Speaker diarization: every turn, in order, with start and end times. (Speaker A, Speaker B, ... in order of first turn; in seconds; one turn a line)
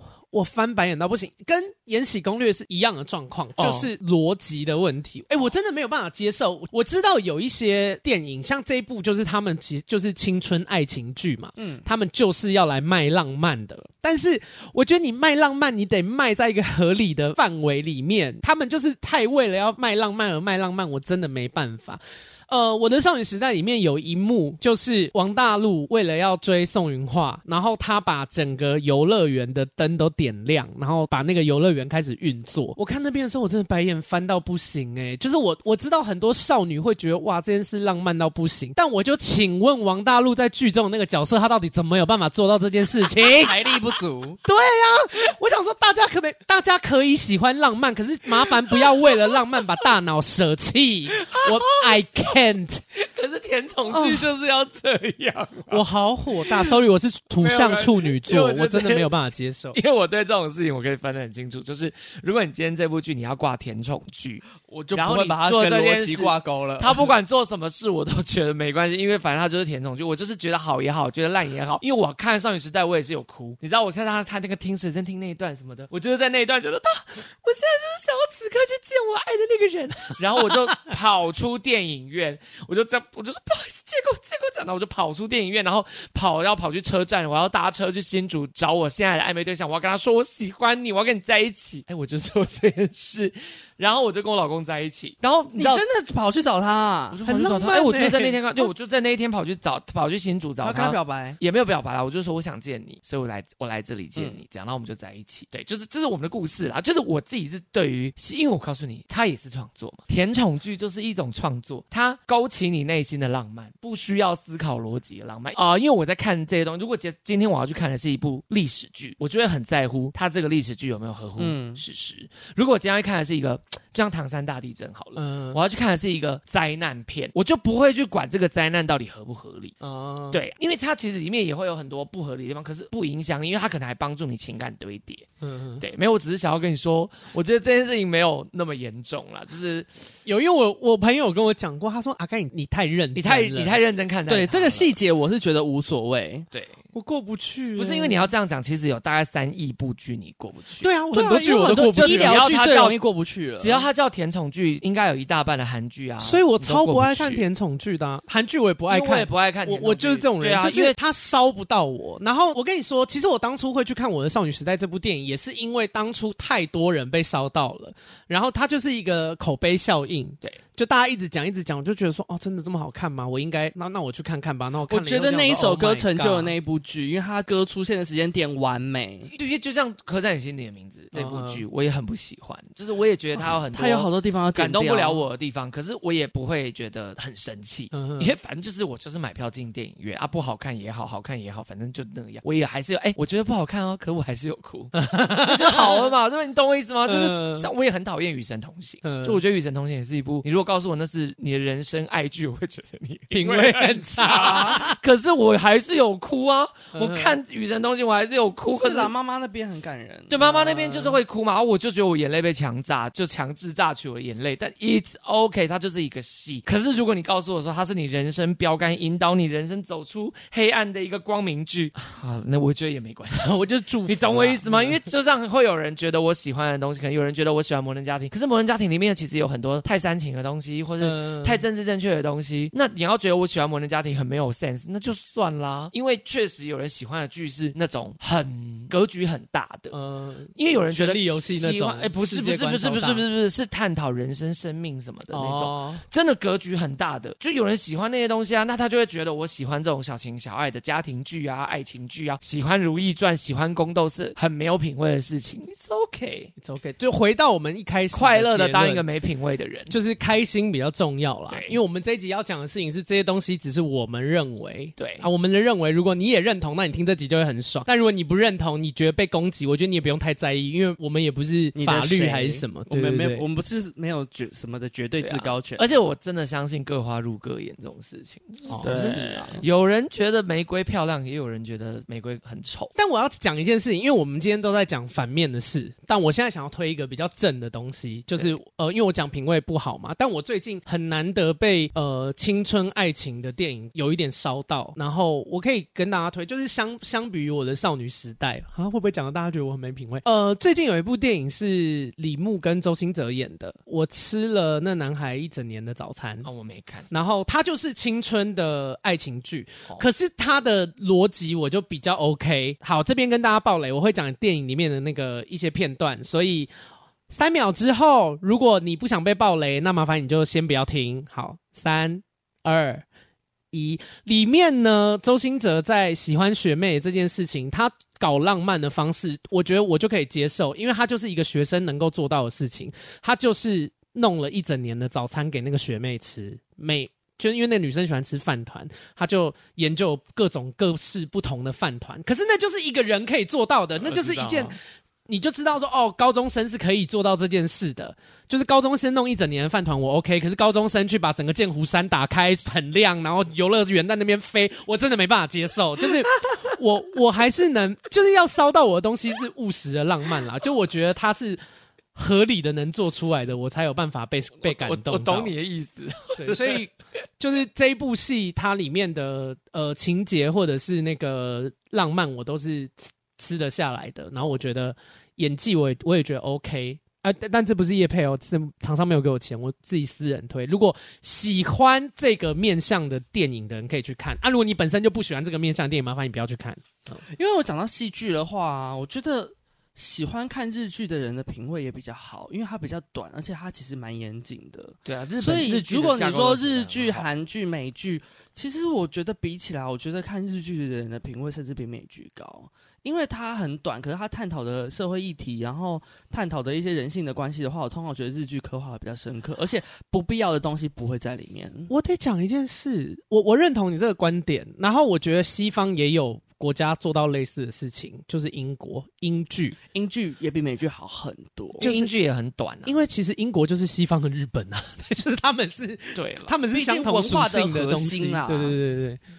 Speaker A: 0.3-43.5
Speaker B: 3.6-3.9
Speaker C: 11.6-11.8
Speaker C: 43.4-44.4
Speaker A: 44.4-52.8
Speaker B: 51.2-52.4
Speaker B: 52.9-55.8
Speaker A: 53.9-54.3
Speaker A: 55.7-59.8
Speaker B: 56.5-56.8
Speaker B: 57.4-59.1
Speaker B: 59.7-95.8
Speaker C: 64.6-67.1
Speaker C: 95.5-97.2
Speaker B: 97.1-129.7
Speaker A: 97.2-98.6
Speaker C: 100.6-101.4
Speaker C: 121.4-121.8
Speaker A: 125.2-125.6
Speaker A: 129.8-130.4
Speaker B: 130.3-135.3
Speaker A: 135.4-135.8
Speaker B: 135.8-139.9
Speaker A: 140.2-143.8
Speaker B: 143.1-144.9
Speaker C: 144.3-146.5
Speaker B: 146.5-146.8
Speaker A: 146.9-148.2
Speaker B: 147.8-150.9
Speaker A: 150.8-152.4
Speaker C: 151.1-153.9
Speaker B: 151.9-153.0
Speaker B: 153.6-157.4
Speaker A: 156.2-176.5
Speaker B: 158.9-160.9
Speaker C: 174.9-179.3
Speaker B: 179.3-209.1
Speaker A: 181.1-181.6
Speaker C: 183.4-185.2
Speaker A: 187.9-188.3
Speaker A: 194.9-196.0
Speaker A: 197.1-197.7
Speaker A: 199.0-199.4
Speaker A: 203.3-205.0
Speaker C: 204.3-204.8
Speaker A: 206.9-207.3
Speaker C: 208.7-210.3
Speaker B: 210.3-223.5
Speaker A: 210.4-211.2
Speaker A: 223.3-225.0
Speaker B: 224.1-239.9
Speaker A: 231.0-231.6
Speaker A: 239.9-243.2
Speaker B: 240.6-256.5
Speaker A: 245.3-246.0
Speaker A: 256.6-259.0
Speaker B: 258.1-259.9
Speaker A: 259.9-273.4
Speaker B: 261.5-261.8
Speaker B: 265.0-265.3
Speaker C: 271.7-276.0
Speaker B: 275.2-282.9
Speaker A: 278.7-279.6
Speaker C: 278.8-279.6
Speaker A: 282.9-306.5
Speaker B: 306.4-307.1
Speaker A: 307.1-316.7
Speaker A: 317.3-323.0
Speaker A: 323.7-344.7
Speaker B: 344.0-344.7
Speaker A: 345.3-361.6
Speaker A: 362.1-365.5
Speaker B: 364.6-366.8
Speaker A: 366.4-387.2
Speaker C: 387.3-411.9
Speaker B: 395.1-397.3
Speaker A: 411.9-419.8
Speaker C: 419.9-421.9
Speaker A: 421.8-422.1
Speaker B: 421.8-423.0
Speaker A: 422.8-429.2
Speaker B: 426.1-426.5
Speaker C: 426.7-428.8